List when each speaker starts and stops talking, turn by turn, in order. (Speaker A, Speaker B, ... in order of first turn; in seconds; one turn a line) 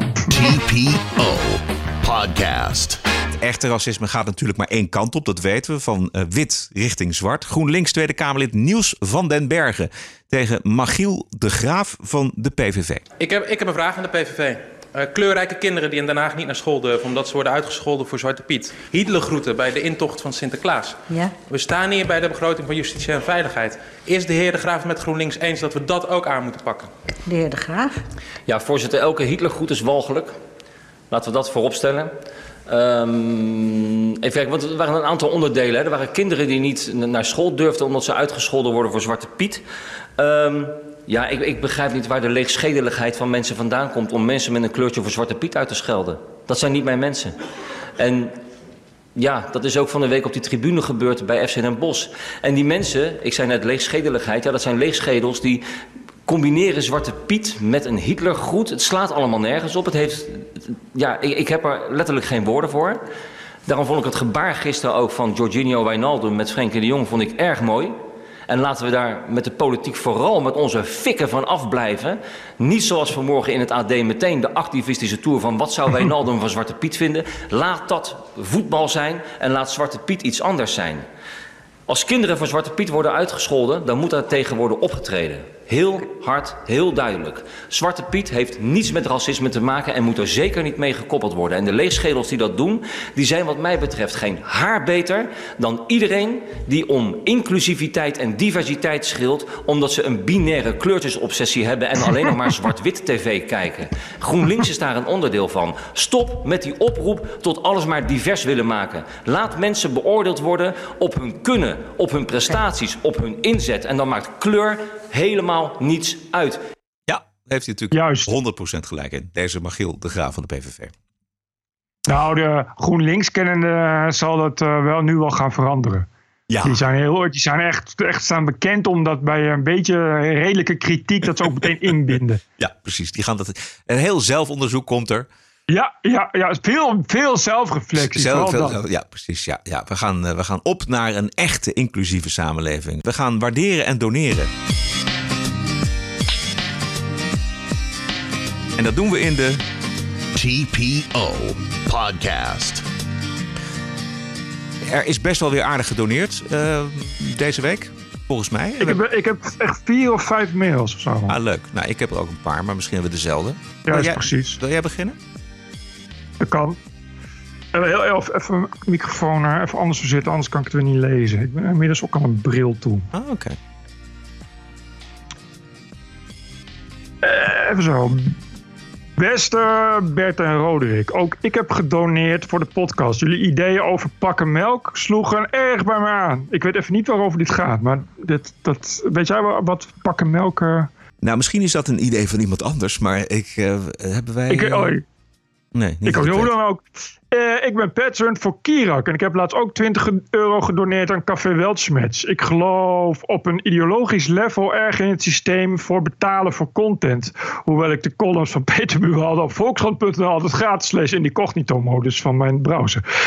Speaker A: 0.3-3.0
Speaker B: 3.4-13.0
Speaker C: 13.2-27.8
Speaker D: 28.5-30.4
Speaker D: 31.1-32.1
Speaker D: 32.7-39.6
Speaker D: 40.2-47.4
Speaker D: 48.0-48.3
Speaker D: 49.2-55.6
Speaker D: 56.3-63.0
Speaker D: 63.7-68.0
Speaker D: 68.5-81.0
Speaker D: 81.9-116.6
Speaker B: 117.1-120.9
Speaker E: 117.9-118.3
Speaker E: 122.1-126.1
Speaker B: 126.5-126.8
Speaker E: 126.6-132.4
Speaker B: 132.6-135.3
Speaker E: 135.7-138.8
Speaker B: 138.0-144.5
Speaker B: 148.8-149.6
Speaker A: 150.3-152.8
Speaker B: 154.9-159.0
Speaker E: 158.8-161.4
Speaker B: 161.3-165.2
Speaker E: 163.9-164.6
Speaker E: 166.4-166.8
Speaker E: 167.7-173.1
Speaker B: 173.1-173.6
Speaker E: 177.2-178.3
Speaker E: 179.2-190.9
Speaker B: 191.2-195.0
Speaker E: 194.5-195.0
Speaker B: 195.8-196.5
Speaker E: 196.1-213.0